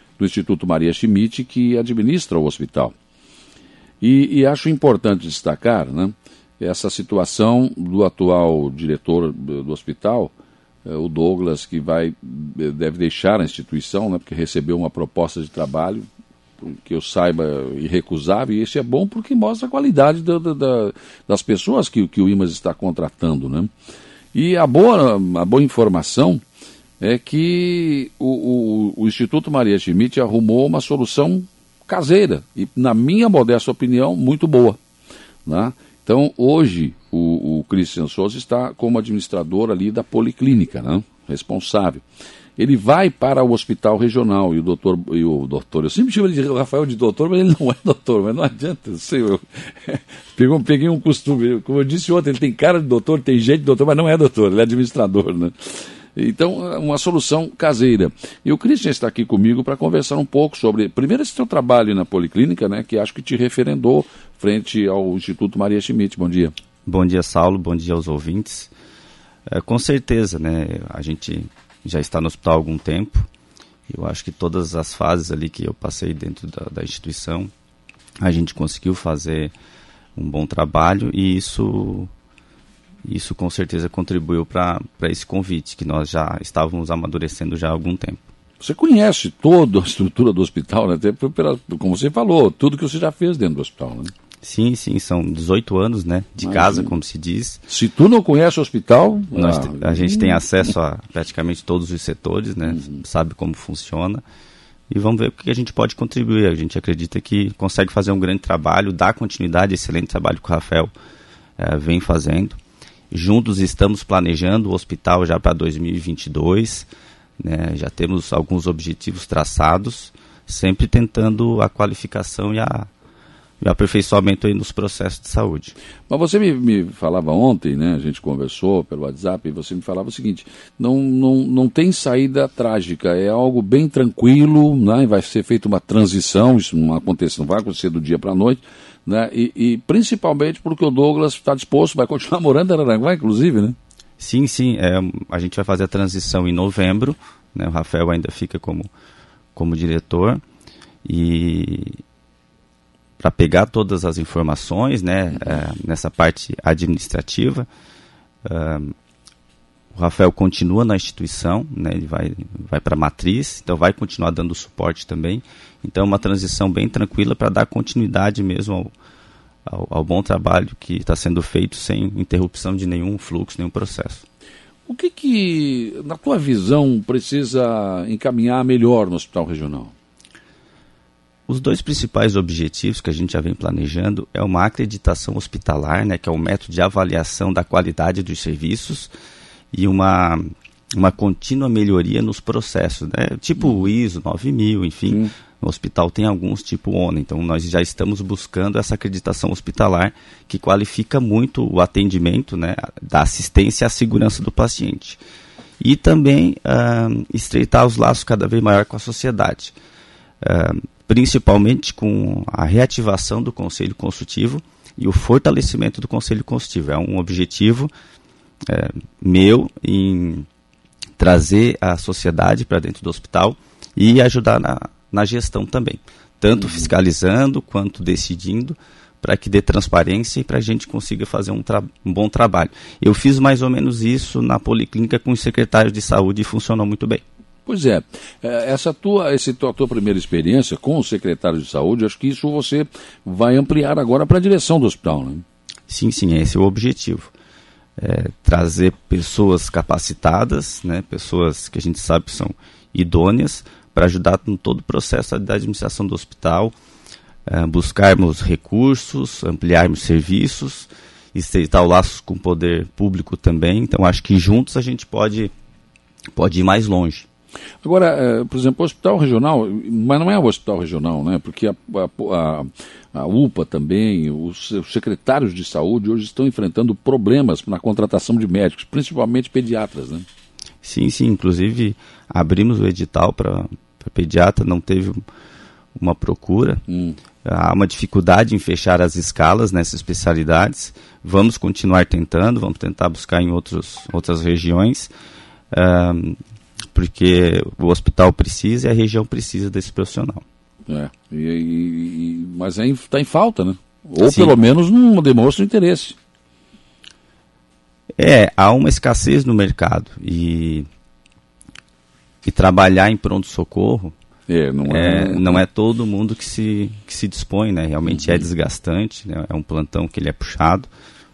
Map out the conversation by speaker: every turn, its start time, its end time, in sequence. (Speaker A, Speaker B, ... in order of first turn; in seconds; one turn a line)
Speaker A: 0.2-2.9
Speaker A: 4.0-10.3
Speaker A: 10.8-16.0
Speaker A: 16.6-23.7
Speaker A: 24.3-26.4
Speaker A: 27.0-34.8
Speaker A: 35.5-42.0
Speaker A: 42.6-55.5
Speaker A: 56.1-66.5
Speaker B: 66.8-68.7
Speaker B: 69.5-73.3
Speaker B: 73.9-77.5
Speaker B: 78.2-79.5
Speaker B: 80.2-82.1
Speaker B: 83.0-88.2
Speaker A: 88.6-94.1
Speaker B: 94.4-97.6
Speaker A: 96.4-96.9
Speaker A: 97.7-100.4
Speaker B: 99.3-104.2
Speaker A: 102.7-103.0
Speaker B: 104.9-110.9
Speaker B: 111.6-112.6
Speaker B: 113.1-116.9
Speaker B: 117.4-122.9
Speaker B: 123.6-125.7
Speaker A: 126.1-143.8
Speaker B: 144.2-148.9
Speaker B: 149.5-150.4
Speaker B: 151.0-152.0
Speaker B: 153.2-157.7
Speaker B: 158.4-158.9
Speaker B: 159.9-168.9
Speaker B: 169.7-174.2
Speaker A: 174.9-179.9
Speaker B: 181.5-189.1
Speaker B: 189.7-190.4
Speaker B: 190.9-205.2
Speaker B: 205.8-209.7
Speaker B: 210.4-217.9
Speaker B: 218.7-220.5
Speaker B: 221.2-237.2
Speaker A: 226.6-226.9
Speaker A: 237.7-245.4
Speaker B: 245.9-247.3
Speaker B: 248.0-256.7
Speaker B: 257.5-265.5
Speaker B: 266.3-267.3
Speaker A: 267.8-280.2
Speaker B: 280.8-285.2
Speaker B: 285.9-286.8
Speaker A: 286.9-287.2
Speaker B: 287.4-295.1
Speaker B: 295.7-296.4
Speaker B: 296.9-300.4
Speaker A: 300.9-306.2
Speaker B: 304.2-304.6
Speaker B: 308.2-310.9
Speaker B: 312.4-314.1
Speaker A: 314.5-315.6
Speaker B: 314.8-320.9
Speaker A: 318.1-318.5